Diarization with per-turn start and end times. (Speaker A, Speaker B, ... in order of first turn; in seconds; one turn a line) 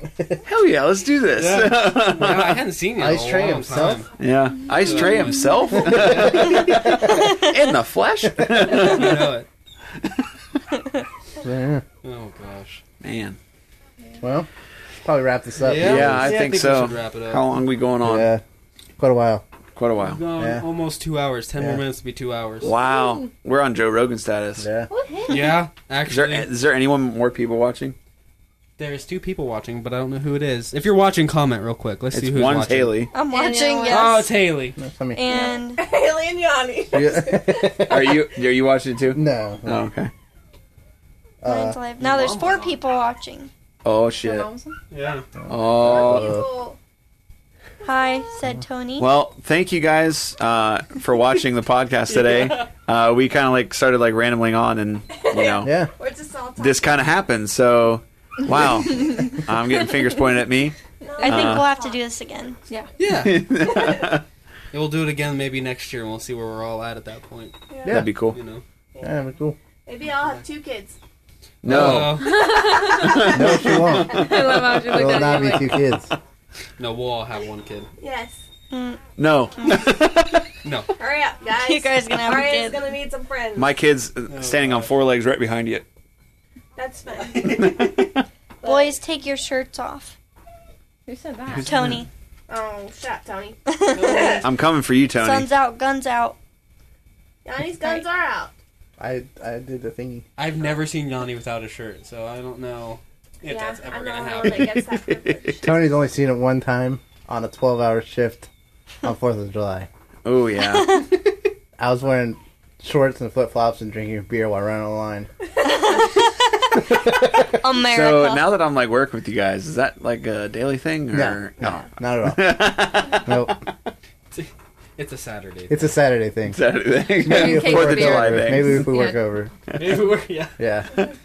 Speaker A: 0.4-2.6
Speaker B: 1.3-4.1
Speaker C: 3.0-4.0
Speaker A: 4.2-9.3
Speaker B: 4.7-6.5
Speaker C: 5.8-7.2
Speaker B: 8.6-9.5
Speaker A: 10.0-10.6
Speaker C: 11.4-11.8
Speaker B: 12.0-12.8
Speaker A: 13.0-13.4
Speaker C: 14.2-14.5
Speaker C: 15.0-16.3
Speaker B: 15.6-17.5
Speaker A: 15.8-18.3
Speaker C: 18.0-18.4
Speaker C: 19.0-19.4
Speaker A: 19.8-20.2
Speaker B: 20.0-22.7
Speaker C: 20.4-20.6
Speaker A: 22.6-24.7
Speaker C: 24.6-24.9
Speaker D: 24.9-25.6
Speaker B: 25.3-26.5
Speaker A: 26.1-27.9
Speaker B: 28.8-33.1
Speaker A: 32.1-33.1
Speaker E: 33.1-34.3
Speaker D: 33.3-34.2
Speaker F: 33.4-33.8
Speaker B: 33.9-34.8
Speaker C: 34.8-35.2
Speaker E: 35.1-35.8
Speaker D: 35.2-38.2
Speaker C: 36.9-38.1
Speaker A: 37.9-40.1
Speaker C: 39.1-39.8
Speaker C: 41.4-41.8
Speaker E: 41.4-43.5
Speaker B: 42.0-42.8
Speaker A: 43.8-44.5
Speaker F: 44.2-44.8
Speaker B: 44.9-45.3
Speaker C: 45.4-46.4
Speaker A: 45.5-46.4
Speaker D: 45.8-46.8
Speaker E: 47.8-49.1
Speaker A: 49.0-55.8
Speaker B: 52.1-52.7
Speaker D: 55.1-57.2
Speaker C: 55.6-55.9
Speaker A: 56.6-61.7
Speaker F: 59.0-59.3
Speaker D: 61.0-62.0
Speaker E: 61.2-62.6
Speaker B: 63.0-63.6
Speaker A: 63.1-64.2
Speaker D: 63.7-64.1
Speaker B: 64.7-67.6
Speaker D: 67.7-68.0
Speaker C: 67.8-68.1
Speaker A: 67.9-68.4
Speaker B: 68.3-68.6
Speaker C: 69.0-69.5
Speaker D: 69.8-71.0
Speaker A: 71.6-75.0
Speaker B: 71.6-72.7
Speaker F: 72.1-75.8
Speaker D: 72.5-73.3
Speaker C: 73.2-76.1
Speaker B: 76.8-77.9
Speaker D: 78.0-78.4
Speaker E: 78.7-79.0
Speaker A: 79.2-80.5
Speaker B: 80.6-80.9
Speaker D: 81.0-83.7
Speaker E: 81.6-82.9
Speaker A: 83.5-85.8
Speaker B: 84.3-85.0
Speaker D: 86.8-88.0
Speaker A: 87.4-88.2
Speaker D: 88.6-88.9
Speaker E: 88.6-90.2
Speaker F: 91.0-91.8
Speaker A: 91.5-92.0
Speaker E: 91.6-92.1
Speaker D: 92.5-94.4
Speaker E: 93.7-94.3
Speaker B: 93.9-94.5
Speaker A: 94.4-95.5
Speaker E: 95.2-96.4
Speaker D: 97.4-98.5
Speaker E: 97.8-98.0
Speaker C: 99.0-100.2
Speaker B: 100.3-104.8
Speaker D: 103.4-105.7
Speaker A: 104.5-105.7
Speaker C: 105.6-108.5
Speaker C: 109.0-109.9
Speaker A: 110.2-111.1
Speaker C: 111.8-115.3
Speaker D: 115.7-116.0
Speaker E: 115.7-116.1
Speaker E: 116.8-118.5
Speaker A: 117.7-123.9
Speaker C: 121.1-123.6
Speaker B: 124.3-125.9
Speaker C: 125.7-126.6
Speaker A: 126.5-128.9
Speaker F: 127.2-129.2
Speaker C: 127.2-129.6
Speaker A: 129.7-130.0
Speaker B: 129.7-130.6
Speaker C: 130.6-131.0